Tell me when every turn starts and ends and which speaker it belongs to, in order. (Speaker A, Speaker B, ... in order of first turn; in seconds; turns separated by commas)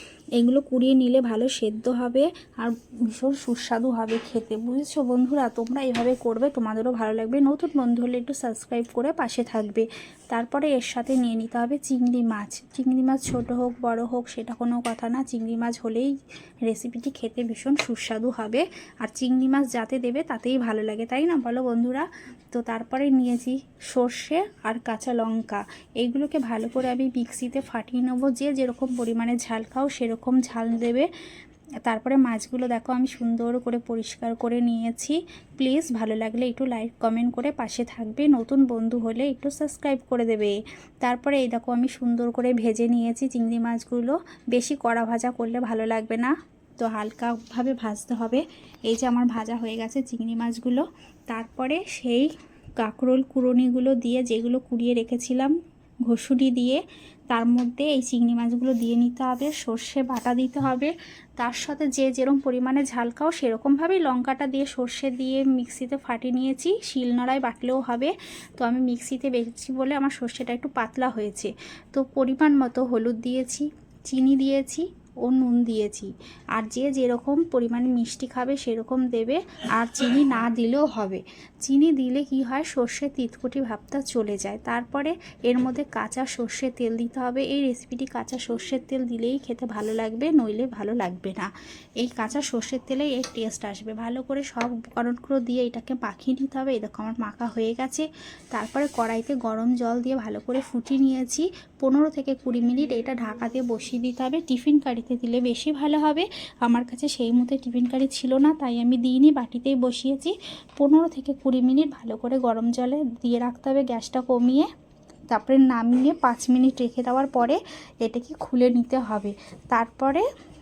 Speaker A: 0.4-16.1, Speaker A: 16.7-31.1, Speaker A: 31.9-55.5, Speaker A: 56.1-91.5, Speaker A: 92.0-114.7, Speaker A: 115.3-120.2